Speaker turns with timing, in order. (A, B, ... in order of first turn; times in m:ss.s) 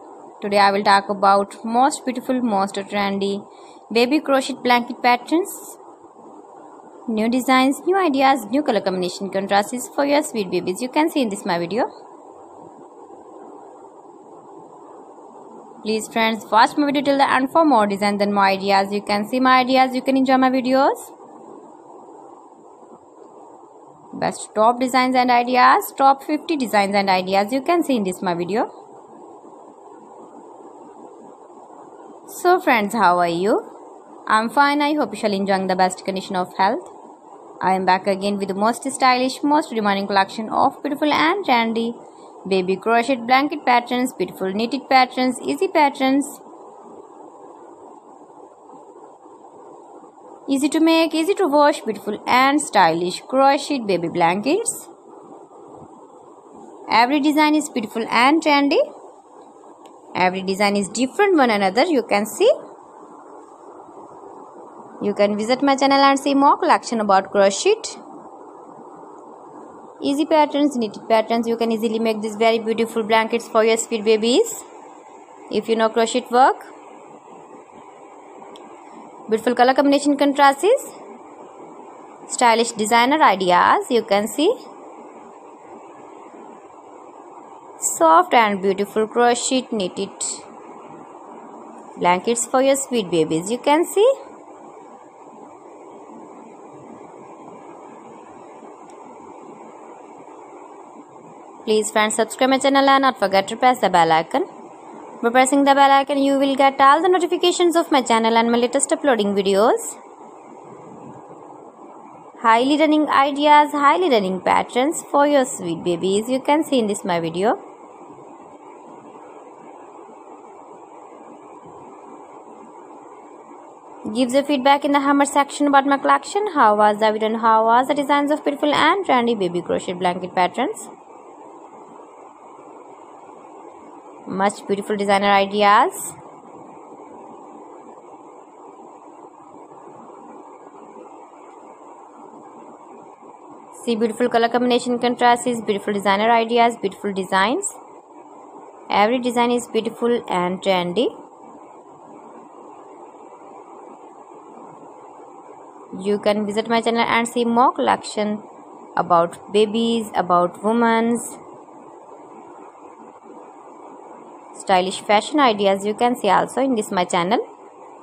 0:00.4-0:05.8 A
0:07.1-0:11.9 A
0:15.8-0:21.1 A
0:24.1-0:28.7 A
0:32.3-0:33.6 A
0:34.3-0:36.9 A
0:37.6-0:46.4 A
0:50.5-0:54.9 A
0:56.9-0:58.8 A
1:00.1-1:02.5 A
1:05.0-1:08.0 A
1:10.0-1:14.6 A
1:15.5-1:16.7 A
1:19.3-1:20.9 A
1:22.3-1:24.5 A
1:27.8-1:30.4 A
1:32.0-1:34.1 A
1:41.6-1:44.5 A
1:45.2-1:50.0 A
1:52.4-1:57.6 A
2:04.1-2:10.9 A
2:14.3-2:16.1 A
2:23.7-2:27.8 A
2:28.9-2:31.1 A
2:35.9-2:41.4 A
2:44.5-2:47.4 A